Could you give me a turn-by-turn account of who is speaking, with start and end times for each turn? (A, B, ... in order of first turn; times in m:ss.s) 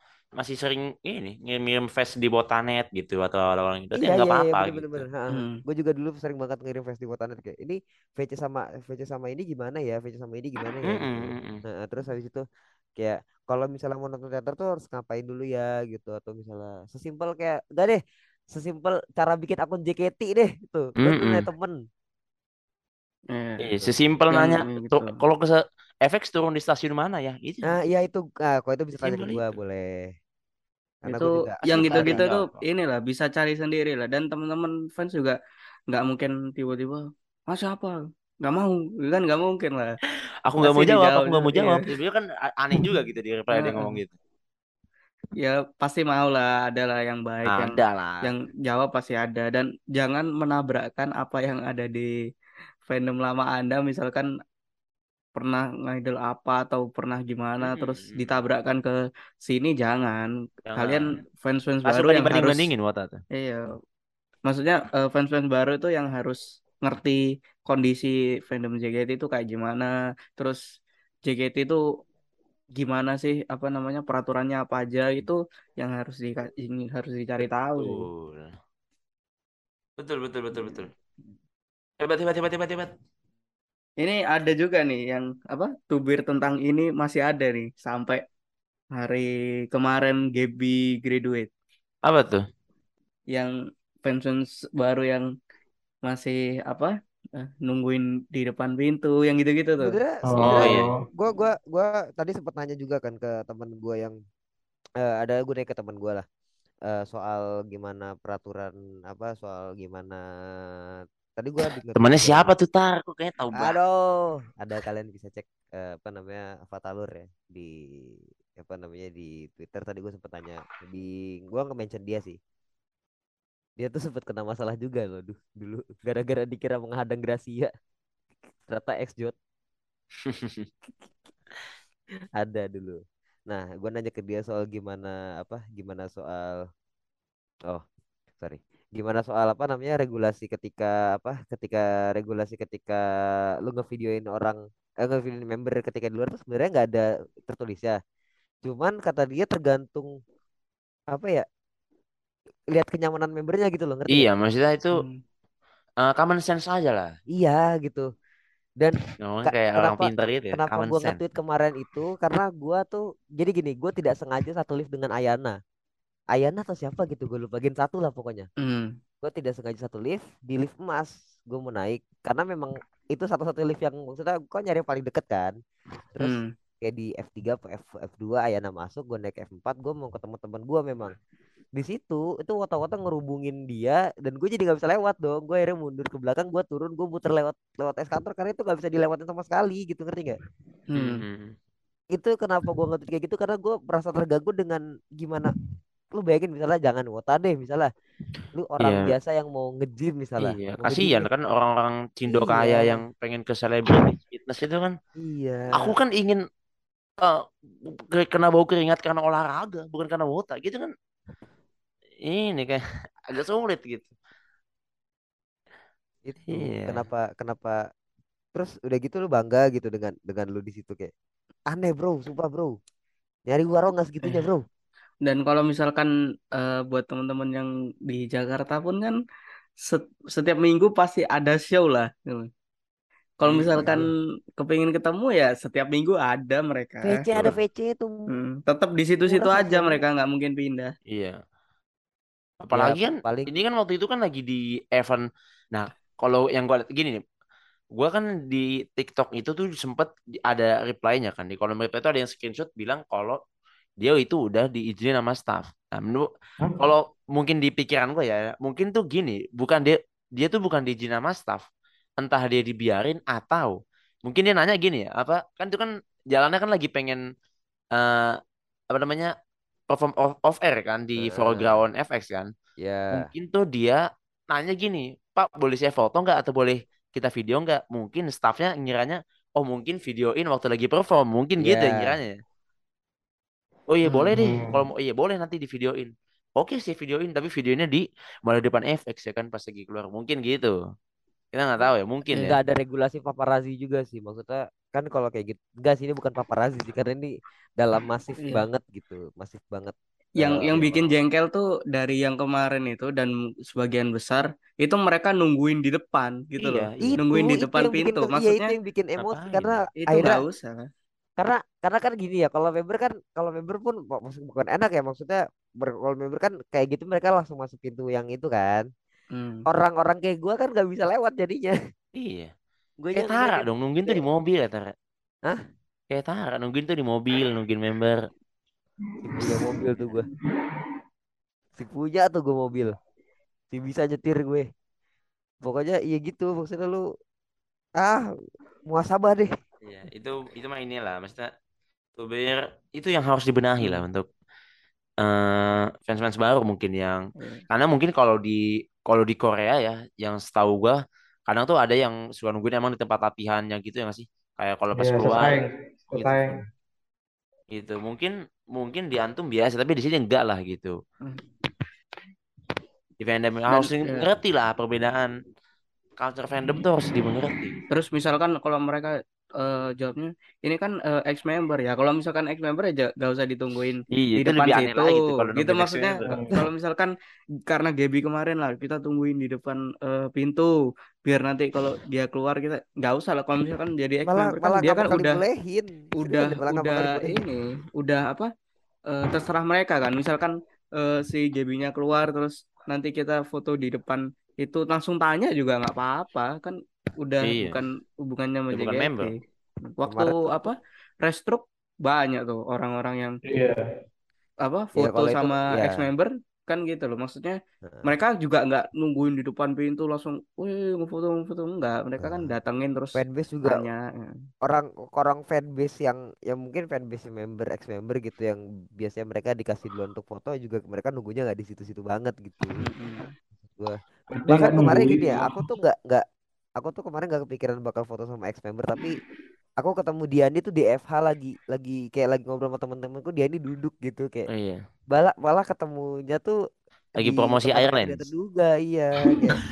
0:00.4-0:05.0 A
0:03.9-0:12.4 B
0:05.3-0:05.6 C
0:10.8-0:11.6 A
0:13.0-0:18.0 B
0:18.5-0:21.8 B
0:21.0-0:21.4 A
0:23.3-0:23.6 C
0:23.6-0:27.6 A
0:24.3-0:25.1 C
0:27.7-0:30.1 B
0:29.0-0:29.4 A
0:31.0-0:32.2 B
0:31.1-0:35.4 C
0:31.7-0:32.6 A
0:35.9-0:39.9 C
0:40.4-0:44.1 A
0:40.6-0:41.8 C
0:43.5-0:44.0 C
0:45.4-0:52.1 C
0:47.5-0:48.3 A
0:52.8-0:54.3 C
0:55.4-1:02.7 C
0:57.6-0:58.4 A
1:00.6-1:01.2 A
1:01.8-1:03.2 A
1:03.3-1:03.7 C
1:04.4-1:10.6 C
1:11.2-1:11.8 C
1:12.8-1:18.0 C
1:17.8-1:18.5 A
1:20.0-1:20.9 A
1:22.0-1:22.9 A
1:24.0-1:28.2 C
1:29.0-1:31.5 C
1:32.0-1:32.4 A
1:34.0-1:35.2 C
1:36.1-1:39.9 C
1:39.8-1:44.1 B
1:40.2-1:40.9 D
1:40.4-1:40.9 A
1:45.0-1:46.2 B
1:46.9-1:50.2 B
1:51.0-1:52.5 B
1:52.0-1:53.7 A
1:53.6-1:57.7 B
1:58.6-2:02.4 B
2:03.8-2:07.7 B
2:08.7-2:09.3 B
2:10.2-2:10.7 A
2:12.4-2:16.6 B
2:18.4-2:23.0 B
2:23.6-2:28.0 B
2:28.6-2:30.1 B
2:31.1-2:31.4 B
2:32.7-2:34.3 B
2:34.1-2:35.0 A
2:36.0-2:37.1 A
2:37.3-2:38.1 B
2:38.8-2:45.6 B
2:39.2-2:41.2 A
2:46.3-2:48.5 B
2:48.6-2:49.0 C
2:49.2-2:55.5 B
2:56.1-3:01.2 B
2:56.2-2:56.5 C
3:01.8-3:10.4 B
3:10.9-3:11.2 C
3:11.0-3:11.5 A
3:12.1-3:15.5 B
3:16.1-3:17.9 B
3:18.6-3:21.3 B
3:18.8-3:19.1 A
3:20.4-3:24.9 A
3:22.3-3:23.0 B
3:25.2-3:25.9 B
3:25.7-3:26.4 A
3:27.2-3:30.9 A
3:32.2-3:34.1 A
3:36.2-3:37.8 B
3:36.5-3:37.0 A
3:38.5-3:41.1 B
3:41.7-3:42.7 B
3:43.5-3:44.6 B
3:45.2-3:49.2 C
3:49.8-3:52.5 C
3:53.4-3:54.1 C
3:53.7-3:54.0 B
3:54.6-3:57.3 C
3:57.0-3:58.2 B
3:58.3-4:00.9 C
3:59.3-4:00.0 B
4:01.1-4:01.4 A
4:02.6-4:07.2 A
4:02.7-4:03.5 B
4:08.0-4:13.4 A
4:14.0-4:21.6 A
4:22.2-4:27.2 A
4:27.9-4:28.4 A
4:28.9-4:29.3 A
4:29.9-4:32.5 A
4:31.2-4:31.8 B
4:32.8-4:33.3 B
4:33.1-4:34.0 A
4:34.5-4:42.4 A
4:41.6-4:42.2 B
4:43.9-4:50.7 A
4:44.3-4:44.8 D
4:51.5-4:52.6 A
4:52.3-5:00.9 B
5:00.4-5:08.7 C
5:06.6-5:07.2 A
5:07.0-5:10.4 B
5:09.2-5:09.8 A
5:10.0-5:10.9 C
5:11.4-5:18.8 B
5:19.3-5:19.6 C
5:19.7-5:21.7 B
5:22.2-5:22.5 A
5:23.0-5:24.2 B
5:23.1-5:24.9 A
5:26.1-5:28.2 A
5:29.2-5:30.3 B
5:29.3-5:29.9 D
5:30.5-5:30.9 D
5:31.8-5:32.9 B
5:33.7-5:34.6 B
5:35.6-5:37.0 B
5:38.0-5:38.3 B
5:38.9-5:39.5 B
5:39.8-5:41.5 A
5:42.2-5:44.2 A
5:45.2-5:55.6 A
5:54.9-5:56.6 D
5:56.1-5:56.6 A
5:57.7-6:01.0 A
6:03.2-6:05.3 A
6:03.7-6:04.3 C
6:06.2-6:07.8 A
6:07.9-6:17.1 C
6:14.1-6:16.4 A
6:16.2-6:16.5 D
6:17.6-6:20.7 C
6:21.2-6:25.4 C
6:24.2-6:27.4 B
6:26.2-6:28.5 C
6:29.1-6:39.4 C
6:37.4-6:37.8 A
6:38.7-6:39.3 A
6:40.0-6:43.4 C
6:40.0-6:40.6 B
6:43.5-6:43.9 D
6:44.6-6:54.4 C
6:45.0-6:46.1 B
6:47.8-6:48.1 B
6:52.2-6:52.5 B
6:53.1-6:53.8 B
6:54.6-7:02.8 B
7:02.8-7:03.3 C
7:03.7-7:06.2 B
7:04.3-7:05.6 D
7:06.8-7:09.2 B
7:09.8-7:14.5 B
7:14.5-7:14.8 A
7:15.1-7:16.6 B
7:17.2-7:18.2 A
7:17.2-7:19.6 B